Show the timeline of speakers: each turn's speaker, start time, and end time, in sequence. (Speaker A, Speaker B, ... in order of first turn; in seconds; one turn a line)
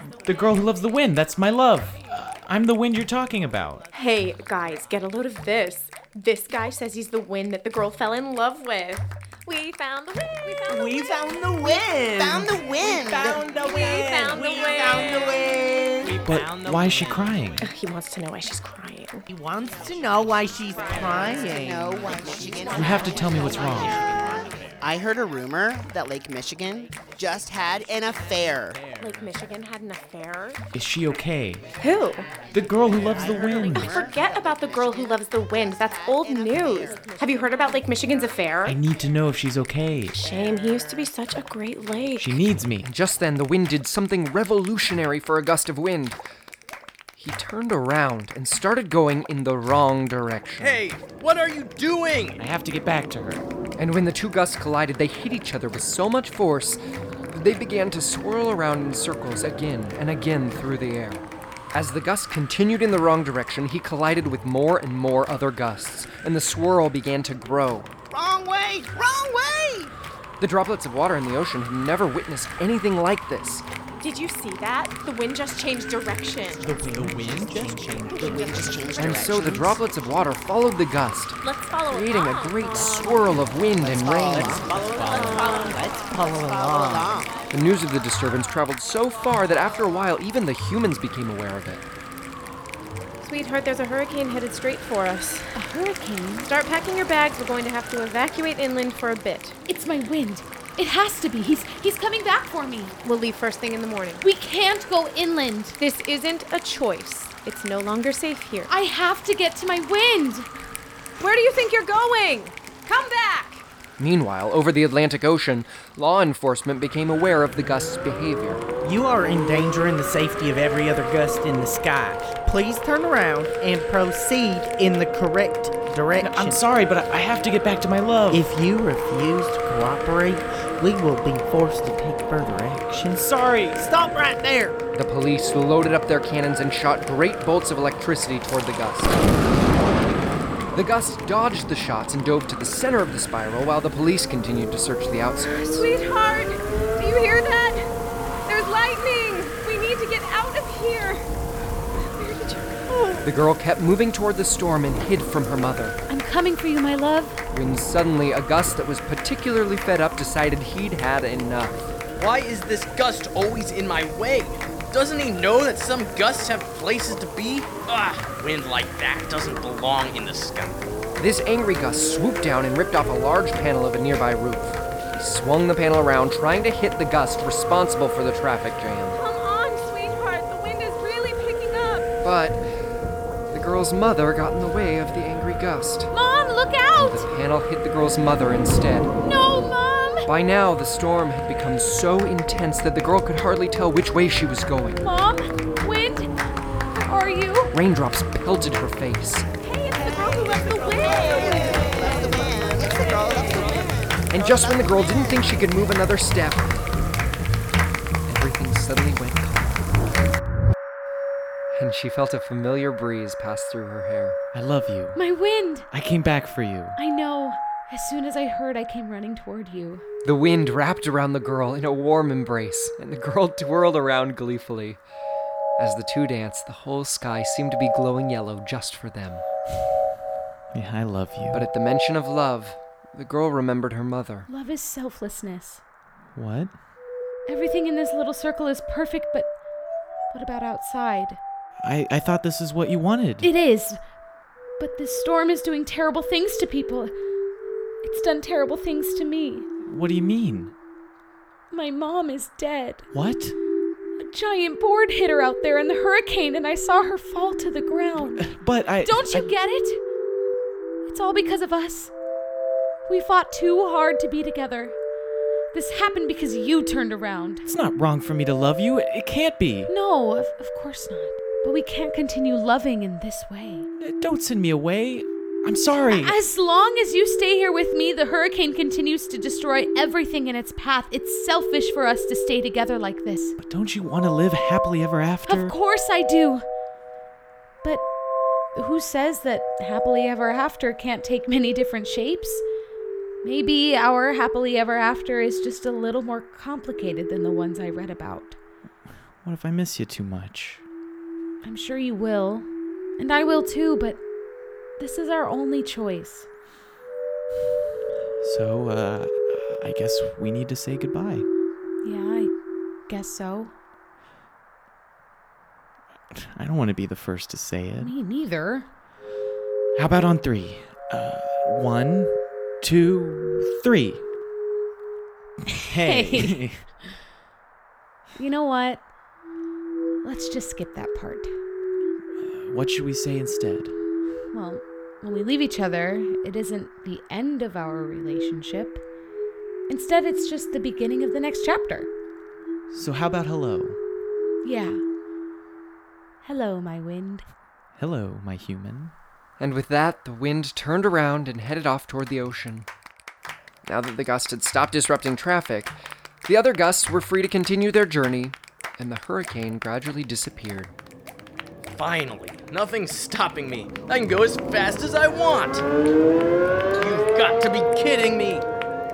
Speaker A: 0.2-3.8
Speaker B: 3.9-11.9
Speaker C: 10.7-13.8
Speaker D: 11.6-13.4
Speaker B: 13.3-15.4
Speaker C: 14.3-15.4
Speaker D: 14.9-16.2
Speaker A: 16.2-17.6
Speaker B: 17.6-19.2
Speaker C: 20.0-21.9
Speaker D: 21.6-23.6
Speaker A: 22.7-24.0
Speaker D: 24.3-28.8
Speaker B: 28.9-30.6
Speaker A: 30.7-31.6
Speaker B: 31.8-32.3
Speaker A: 32.5-34.0
Speaker D: 33.2-33.6
Speaker B: 33.7-38.8
Speaker D: 36.2-36.9
Speaker A: 38.6-40.2
Speaker B: 40.1-42.4
Speaker A: 42.2-42.9
Speaker E: 42.8-46.2
Speaker E: 47.2-50.8
Speaker F: 50.6-52.4
Speaker A: 52.4-53.4
Speaker E: 53.8-56.8
Speaker E: 57.3-67.9
Speaker D: 68.1-69.9
Speaker E: 70.4-73.6
Speaker B: 74.0-76.7
Speaker D: 78.0-79.8
Speaker E: 79.0-84.6
Speaker B: 81.4-83.3
Speaker D: 83.8-84.8
Speaker B: 85.2-85.7
Speaker D: 86.3-87.3
Speaker E: 87.5-91.8
Speaker B: 93.2-95.6
Speaker G: 95.5-96.5
Speaker B: 96.4-99.6
Speaker G: 99.7-103.0
Speaker B: 103.0-104.2
Speaker G: 104.2-105.8
Speaker B: 105.8-108.7
Speaker G: 108.7-110.5
Speaker B: 111.2-113.6
Speaker E: 114.0-118.6
Speaker C: 118.8-126.6
Speaker A: 126.2-128.5
Speaker C: 128.3-133.1
Speaker A: 133.4-133.8
Speaker C: 133.6-134.8
Speaker E: 134.9-139.3
Speaker E: 140.7-145.9
Speaker B: 145.5-147.9
Speaker B: 148.4-151.3
Speaker B: 151.9-153.3
Speaker E: 153.2-156.0
Speaker G: 156.1-157.4
Speaker E: 157.5-161.9
Speaker F: 162.1-170.8
Speaker E: 171.2-179.2
Speaker B: 179.1-182.1
Speaker E: 182.2-182.6
Speaker E: 183.5-186.1
Speaker G: 186.1-187.3
Speaker E: 186.9-189.1
Speaker G: 189.2-190.3
Speaker E: 190.2-195.0
Speaker G: 195.0-196.3
Speaker G: 196.9-197.7
Speaker E: 197.7-199.5
Speaker G: 199.6-202.4
Speaker D: 200.9-205.5
Speaker E: 204.3-206.7
Speaker E: 208.3-209.8
Speaker E: 211.7-214.4
Speaker A: 214.5-215.2
Speaker G: 215.1-215.9
Speaker A: 215.9-217.0
Speaker G: 216.9-220.0
Speaker E: 220.2-225.0
Speaker E: 225.8-229.4
Speaker A: 230.7-231.7
Speaker E: 231.5-234.5
Speaker G: 234.5-235.8
Speaker A: 236.3-236.7
Speaker G: 237.5-239.5
Speaker G: 240.3-241.4
Speaker A: 241.8-243.5
Speaker G: 243.4-244.0
Speaker G: 244.8-247.1
Speaker G: 248.0-249.7
Speaker A: 249.8-250.7
Speaker G: 251.7-253.1
Speaker A: 253.1-253.6
Speaker G: 254.2-258.5
Speaker A: 258.2-259.5
Speaker G: 259.0-260.0
Speaker G: 261.1-262.1
Speaker G: 263.1-264.9
Speaker G: 265.7-267.6
Speaker A: 267.6-269.9
Speaker G: 269.9-273.9
Speaker A: 274.0-276.4
Speaker G: 276.0-283.6
Speaker A: 283.6-285.7
Speaker G: 285.4-286.6
Speaker G: 288.7-292.6
Speaker G: 293.4-298.6
Speaker A: 299.4-300.8
Speaker G: 301.6-304.2
Speaker G: 305.0-306.5
Speaker A: 308.4-311.5
Speaker G: 312.0-312.5
Speaker G: 313.1-313.7
Speaker A: 316.3-318.1
Speaker G: 318.0-318.9
Speaker A: 319.9-324.2
Speaker G: 325.8-326.6
Speaker A: 325.8-326.8
Speaker G: 328.4-329.0
Speaker G: 330.2-331.5
Speaker A: 332.4-333.9
Speaker G: 334.5-339.0
Speaker G: 339.9-342.1
Speaker A: 342.9-344.0
Speaker G: 344.6-345.0
Speaker G: 346.4-347.5
Speaker A: 347.9-349.1
Speaker E: 349.6-352.9
Speaker E: 353.9-360.9
Speaker F: 361.9-365.8
Speaker F: 366.9-368.6